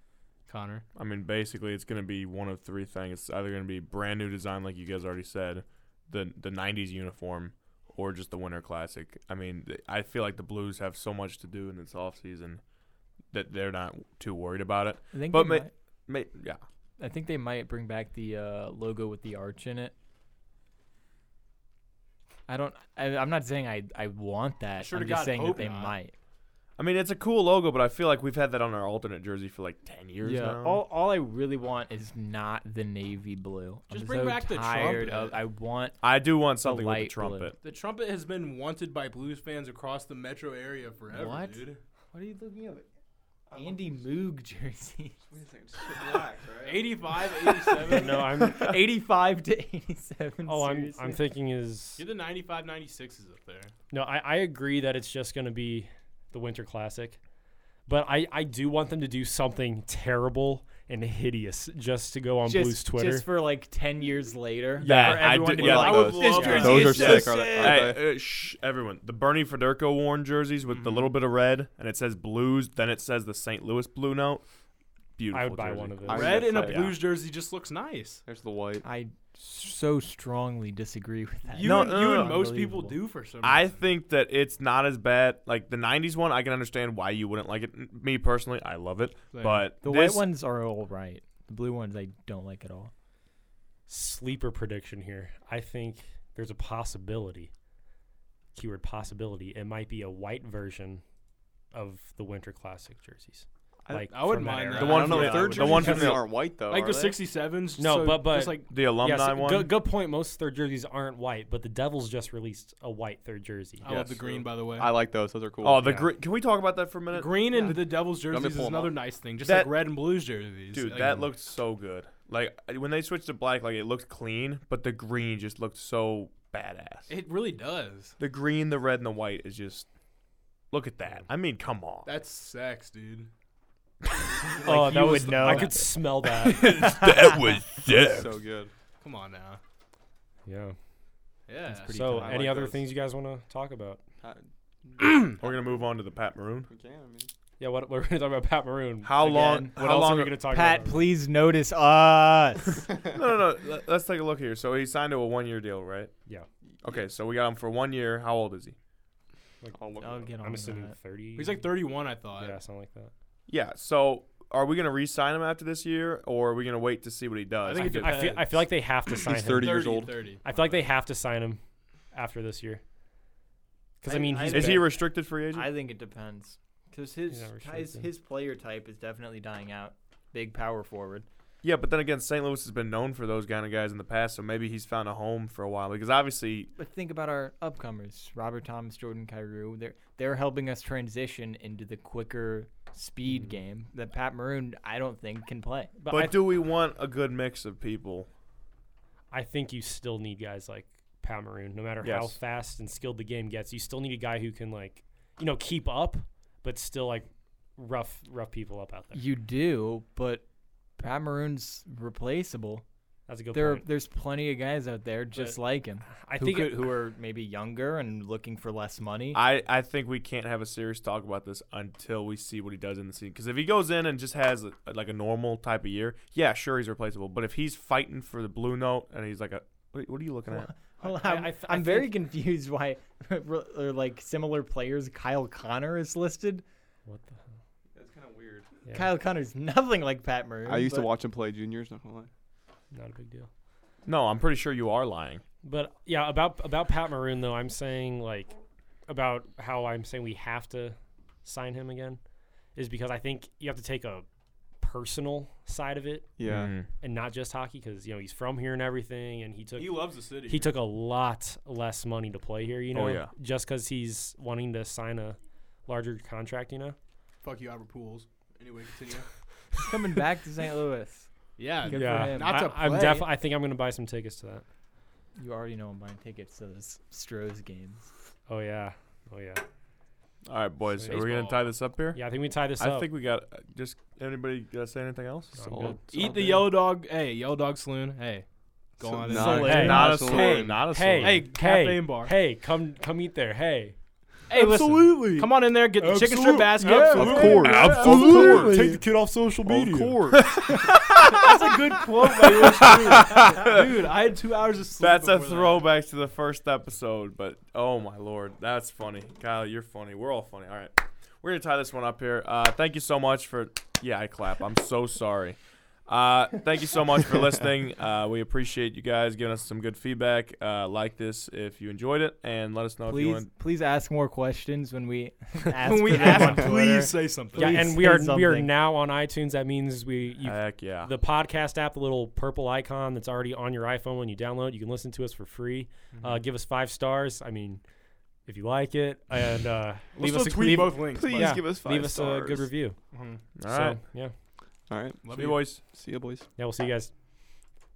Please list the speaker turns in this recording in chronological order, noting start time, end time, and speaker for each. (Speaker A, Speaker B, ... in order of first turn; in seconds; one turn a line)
Speaker A: 0.5-0.8
Speaker B: 0.9-12.6
Speaker B: 13.3-16.6
Speaker C: 15.1-15.7
Speaker C: 17.0-19.9
Speaker C: 22.5-26.1
Speaker A: 24.8-25.9
Speaker B: 26.8-30.8
Speaker C: 30.2-36.0
Speaker A: 33.9-35.4
Speaker B: 36.0-37.5
Speaker C: 36.6-37.5
Speaker A: 37.6-41.8
Speaker C: 41.1-42.9
Speaker C: 43.5-45.1
Speaker D: 45.3-47.7
Speaker A: 46.6-48.3
Speaker C: 47.8-51.2
Speaker E: 47.8-48.7
Speaker E: 50.5-52.0
Speaker A: 52.0-53.7
Speaker E: 53.9-57.2
Speaker E: 57.9-63.2
Speaker C: 62.5-67.9
Speaker E: 64.8-65.5
Speaker B: 64.8-74.4
Speaker D: 65.6-68.0
Speaker A: 65.8-67.2
Speaker A: 70.7-71.0
Speaker B: 75.2-77.0
Speaker E: 75.3-76.3
Speaker D: 76.0-76.9
Speaker A: 76.1-78.2
Speaker D: 78.2-78.8
Speaker C: 78.8-83.0
Speaker A: 81.5-83.8
Speaker B: 81.6-82.4
Speaker B: 83.4-90.2
Speaker A: 89.3-89.7
Speaker C: 89.8-92.9
Speaker E: 93.9-97.5
Speaker E: 98.5-101.0
Speaker E: 101.7-106.1
Speaker D: 103.8-107.2
Speaker A: 104.1-108.7
Speaker B: 104.7-106.2
Speaker E: 107.8-113.9
Speaker B: 108.7-109.7
Speaker A: 113.8-114.9
Speaker D: 113.8-115.9
Speaker B: 115.6-117.5
Speaker E: 115.8-116.1
Speaker A: 117.1-121.3
Speaker D: 118.2-119.0
Speaker B: 119.4-119.7
Speaker B: 120.7-127.1
Speaker A: 127.1-128.1
Speaker B: 128.2-129.9
Speaker B: 130.7-132.1
Speaker A: 132.0-133.3
Speaker A: 134.6-135.7
Speaker C: 134.6-137.4
Speaker E: 134.6-136.7
Speaker B: 136.4-138.3
Speaker D: 138.0-138.7
Speaker A: 139.0-139.6
Speaker E: 140.5-140.8
Speaker A: 141.5-142.7
Speaker C: 141.7-142.6
Speaker E: 141.9-144.0
Speaker D: 142.4-142.7
Speaker D: 144.2-145.8
Speaker B: 145.3-146.7
Speaker D: 146.7-147.3
Speaker E: 147.6-151.0
Speaker B: 149.0-150.4
Speaker C: 149.2-149.8
Speaker C: 150.4-152.9
Speaker B: 153.1-156.1
Speaker B: 156.8-158.8
Speaker D: 159.7-160.3
Speaker C: 160.0-160.9
Speaker E: 160.4-161.7
Speaker A: 161.3-162.6
Speaker E: 162.4-163.1
Speaker B: 163.5-168.3
Speaker A: 167.6-168.7
Speaker E: 167.7-171.6
Speaker D: 169.2-170.2
Speaker A: 169.5-170.8
Speaker E: 172.1-172.8
Speaker E: 174.0-174.9
Speaker C: 174.1-181.2
Speaker B: 174.5-175.7
Speaker E: 177.3-178.0
Speaker B: 181.6-186.7
Speaker C: 186.8-195.9
Speaker E: 196.0-196.4
Speaker B: 196.1-198.3
Speaker E: 199.3-209.2
Speaker B: 202.0-202.4
Speaker C: 209.1-210.4
Speaker C: 211.0-212.8
Speaker E: 213.3-213.9
Speaker C: 213.5-219.4
Speaker E: 215.3-216.9
Speaker B: 219.3-230.7
Speaker C: 230.5-236.6
Speaker E: 231.0-232.1
Speaker E: 237.1-237.4
Speaker D: 237.9-238.7
Speaker E: 238.8-239.1
Speaker C: 238.9-241.1
Speaker D: 240.7-242.3
Speaker E: 242.9-243.5
Speaker B: 244.1-245.4
Speaker E: 245.6-248.5
Speaker E: 249.1-252.2
Speaker E: 252.8-254.2
Speaker E: 254.8-266.9
Speaker D: 256.4-256.7
Speaker B: 256.4-256.9
Speaker A: 259.8-260.7
Speaker B: 262.9-263.3
Speaker A: 267.4-269.3
Speaker C: 269.8-271.3
Speaker A: 271.6-273.3
Speaker C: 271.8-272.7
Speaker E: 271.9-274.6
Speaker C: 275.4-278.1
Speaker E: 278.5-279.6
Speaker B: 280.5-282.2
Speaker A: 281.1-281.7
Speaker E: 282.1-283.1
Speaker B: 282.8-285.6
Speaker E: 285.6-286.6
Speaker D: 285.6-286.0
Speaker A: 286.1-288.4
Speaker C: 286.2-286.6
Speaker A: 289.0-290.4
Speaker D: 289.0-290.8
Speaker C: 289.3-290.1
Speaker E: 289.3-293.9
Speaker B: 289.7-291.5
Speaker A: 291.2-292.3
Speaker A: 294.5-298.7
Speaker C: 294.5-295.4
Speaker E: 294.5-300.4
Speaker D: 296.8-299.0
Speaker C: 296.8-297.1
Speaker B: 297.8-298.8
Speaker D: 299.6-300.5
Speaker B: 300.3-301.5
Speaker A: 301.1-305.9
Speaker B: 302.4-304.0
Speaker B: 305.0-323.5
Speaker C: 323.1-328.7
Speaker A: 325.8-327.9
Speaker E: 326.1-326.6
Speaker E: 327.5-337.8
Speaker B: 330.4-331.1
Speaker A: 336.1-336.4
Speaker E: 338.4-343.0
Speaker A: 340.2-341.7
Speaker D: 340.9-342.7
Speaker A: 343.1-343.4
Speaker B: 343.6-344.0
Speaker E: 343.6-344.3
Speaker D: 344.9-346.4
Speaker A: 345.2-345.6
Speaker B: 345.3-345.8
Speaker E: 346.6-347.1